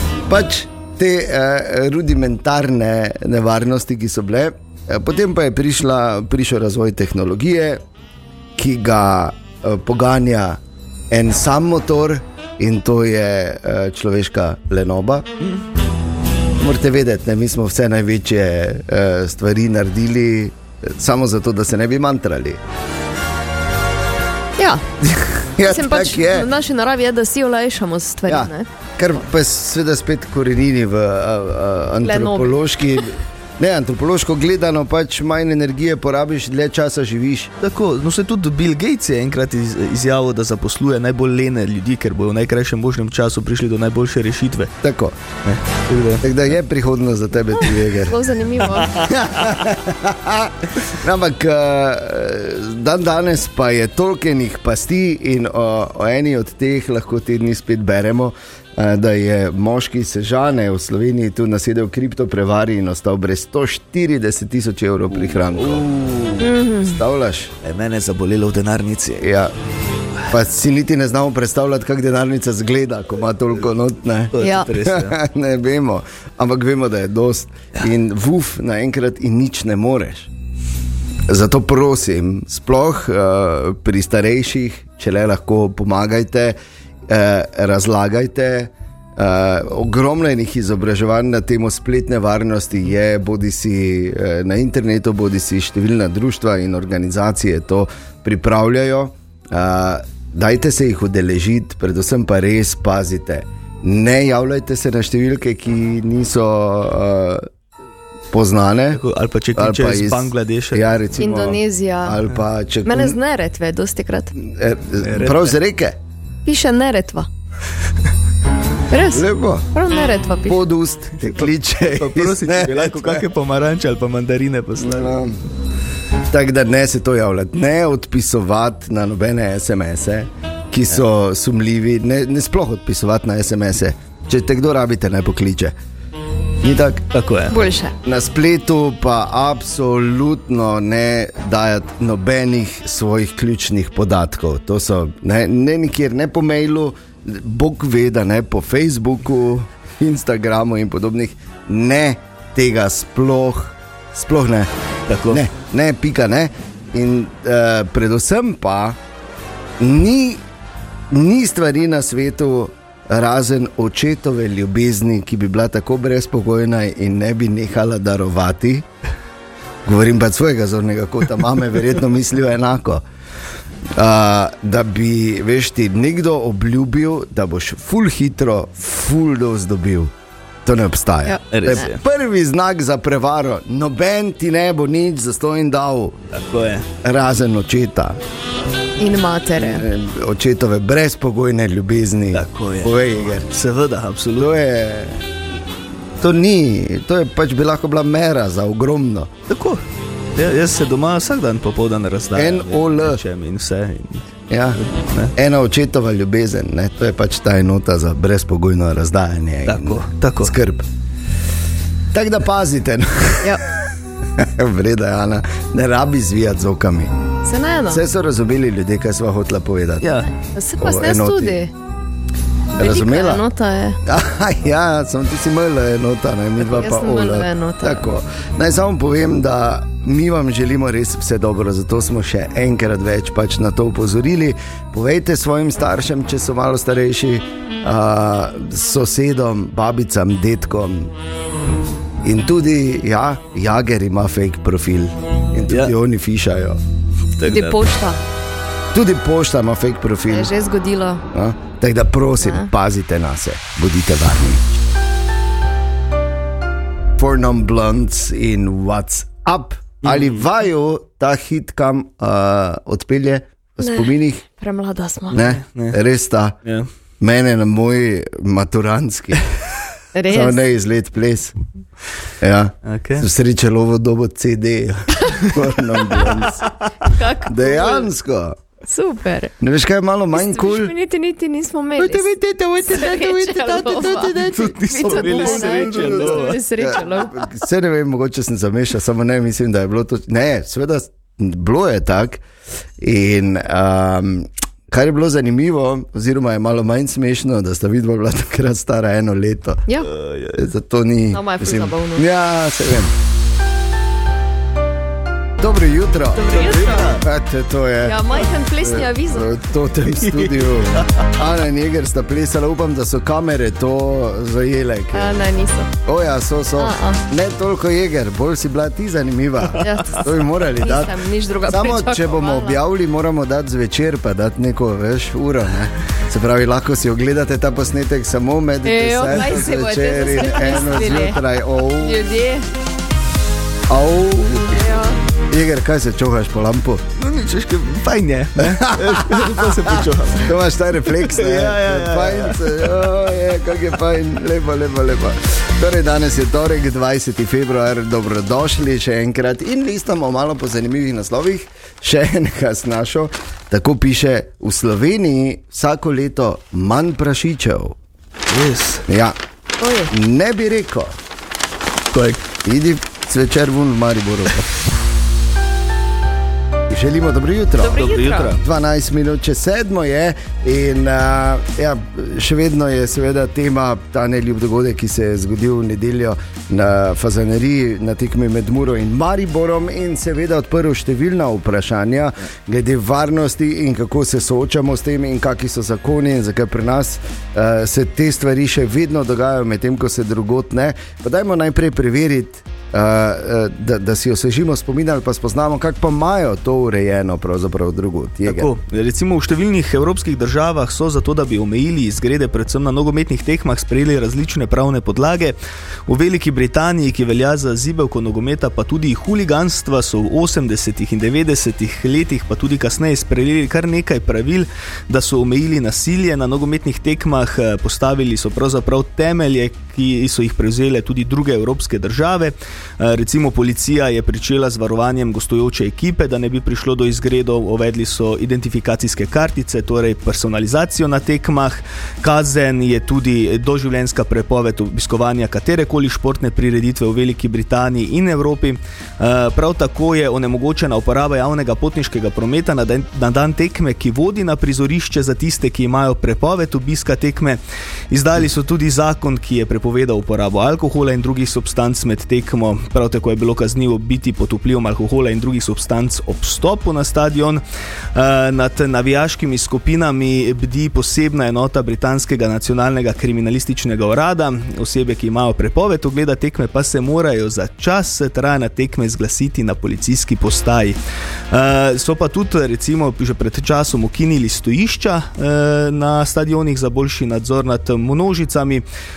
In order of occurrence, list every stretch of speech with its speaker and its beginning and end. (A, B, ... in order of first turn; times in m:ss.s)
0:00.3-0:07.8 A
0:08.6-0:10.6 A
0:11.1-0:15.2 A
0:16.6-0:22.6 A
0:24.6-0:24.8 B
0:25.1-0:26.5 A
0:25.6-0:28.7 B
0:28.3-0:37.5 A
0:32.0-0:32.6 B
0:37.6-0:44.7 C
0:44.8-0:45.2 A
0:45.4-0:46.2 C
0:46.2-0:48.2 A
0:48.0-0:49.1 B
0:48.8-0:49.6 C
0:49.1-1:05.8 A
1:05.2-1:06.5 C
1:06.4-1:07.0 B
1:06.8-1:07.5 A
1:07.6-1:09.3 C
1:09.2-1:09.5 A
1:10.3-1:20.3 A
1:14.3-1:15.2 C
1:14.4-1:14.7 B
1:21.3-1:26.6 A
1:27.1-1:47.5 A
1:48.3-1:49.0 A
1:48.9-1:51.0 C
1:49.5-1:53.2 A
1:51.2-1:52.2 B
1:52.8-1:54.4 B
1:54.4-1:56.0 A
1:55.0-1:55.5 C
1:56.4-1:57.3 B
1:58.9-2:00.6 B
1:59.1-1:59.7 A
2:00.4-2:03.2 A
2:01.2-2:05.2 C
2:04.8-2:05.4 A
2:06.3-2:15.7 A
2:16.6-2:17.0 A
2:17.1-2:17.6 C
2:17.5-2:17.9 B
2:18.0-2:34.7 A
2:35.1-2:35.4 C
2:35.3-2:39.0 A
2:39.8-2:40.4 A
2:41.1-2:48.9 A
2:49.8-2:53.0 A
2:54.0-3:00.1 A
3:00.6-3:06.2 A
3:01.2-3:01.8 B
3:01.5-3:02.0 C
3:06.3-3:06.8 C
3:07.0-3:08.2 A
3:09.0-3:09.8 B
3:09.6-3:13.5 A
3:12.3-3:14.5 C
3:14.4-3:15.2 A
3:16.2-3:19.3 A
3:19.5-3:19.8 C
3:20.4-3:25.3 C
3:22.3-3:23.2 A
3:24.5-3:24.8 A
3:25.3-3:30.8 A
3:29.6-3:30.5 C
3:32.1-3:33.8 A
3:34.4-3:37.1 A
3:37.4-3:38.0 B
3:37.9-3:40.2 A
3:40.0-3:40.3 C
3:40.4-3:41.7 B
3:40.8-3:41.6 A
3:42.8-3:44.0 B
3:42.8-3:43.4 A
3:44.0-4:01.1 A
3:46.7-3:48.0 B
4:02.2-4:06.8 A
4:07.4-4:07.8 C
4:07.5-4:08.2 B
4:08.9-4:10.5 A
4:10.3-4:11.2 B
4:11.3-4:14.6 A
4:12.4-4:12.7 B
4:17.2-4:24.4 A
4:20.0-4:20.4 C
4:23.8-4:25.4 B
4:25.3-4:26.6 A
4:25.3-4:26.0 C
4:27.2-4:29.5 A
4:30.1-4:30.7 B
4:30.3-4:31.5 A
4:32.4-4:36.7 A
4:32.8-4:33.3 C
4:37.0-4:38.1 B
4:37.5-4:38.6 A
4:38.9-4:39.5 B
4:39.6-4:40.9 A
4:40.3-4:47.5 B
4:42.0-4:52.4 A
4:44.3-4:46.6 C
4:53.0-4:59.9 A
5:00.0-5:00.7 C
5:00.5-5:03.1 A
5:01.3-5:02.3 B
5:05.6-5:06.5 A
5:06.3-5:07.2 B
5:06.5-5:07.2 C
5:07.2-5:15.4 A
5:08.0-5:09.6 B
5:10.2-5:11.2 C
5:15.1-5:15.9 B
5:16.0-5:21.2 A
5:16.8-5:17.2 B
5:19.8-5:22.8 B
5:21.7-5:32.2 A
5:28.8-5:31.4 B
5:32.0-5:32.7 B
5:33.9-5:34.9 A
5:34.7-5:35.2 B
5:35.5-5:37.0 A
5:37.2-5:40.5 C
5:38.6-5:58.0 A
5:41.1-5:42.9 C
5:58.5-5:59.1 C
5:59.1-5:59.4 A
5:59.8-6:00.1 B
6:00.1-6:01.2 A
6:02.1-6:02.4 C
6:02.6-6:04.7 A
6:06.9-6:38.7 A
6:07.8-6:08.5 B
6:07.9-6:08.6 C
6:38.4-6:45.6 C
6:46.1-7:37.6 C
7:38.1-7:51.0 C
7:51.5-7:58.8 C